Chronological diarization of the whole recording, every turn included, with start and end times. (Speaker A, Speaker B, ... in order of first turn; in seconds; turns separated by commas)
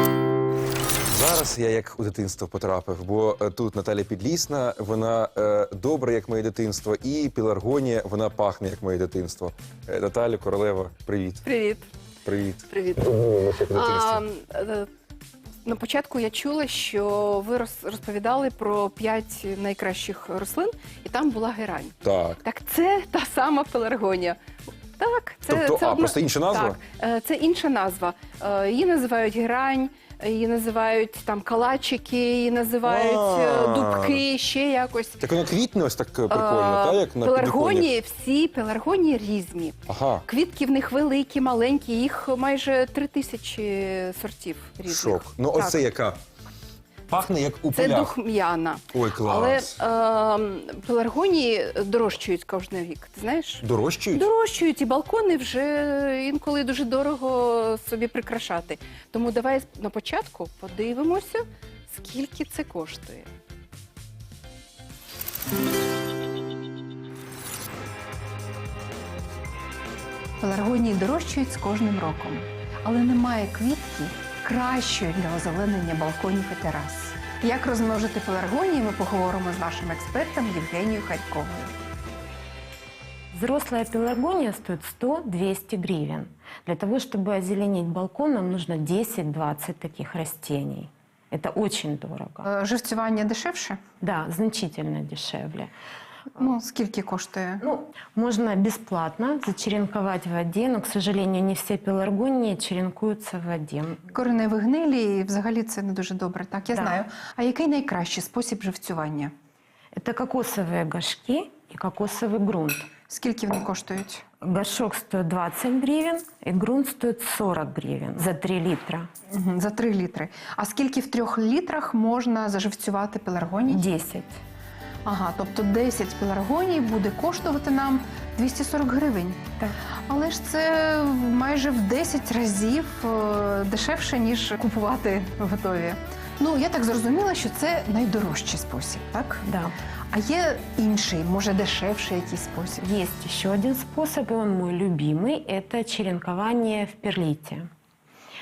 Speaker A: 1.1-11.5, Speaker B: 11.4-11.9, Speaker A: 12.2-14.2, Speaker B: 12.7-14.9, Speaker B: 15.7-24.4, Speaker A: 22.0-22.4, Speaker B: 25.0-35.2, Speaker A: 25.5-26.8, Speaker A: 32.8-34.2, Speaker A: 35.2-38.0, Speaker B: 36.3-45.9, Speaker A: 39.9-40.2, Speaker A: 44.9-46.2, Speaker A: 47.1-48.2, Speaker B: 47.7-63.3, Speaker A: 48.9-49.8, Speaker A: 53.6-54.3, Speaker B: 70.4-81.8, Speaker C: 83.3-92.5, Speaker B: 92.5-93.8, Speaker C: 94.0-95.7, Speaker B: 96.4-97.6, Speaker C: 97.6-104.2, Speaker B: 104.1-109.3, Speaker C: 106.7-107.0, Speaker C: 110.0-112.9, Speaker B: 113.1-114.2, Speaker C: 114.4-119.1, Speaker B: 119.3-123.8, Speaker C: 123.7-124.4, Speaker B: 125.0-139.4, Speaker C: 139.5-139.8, Speaker B: 140.1-142.8, Speaker C: 142.8-147.7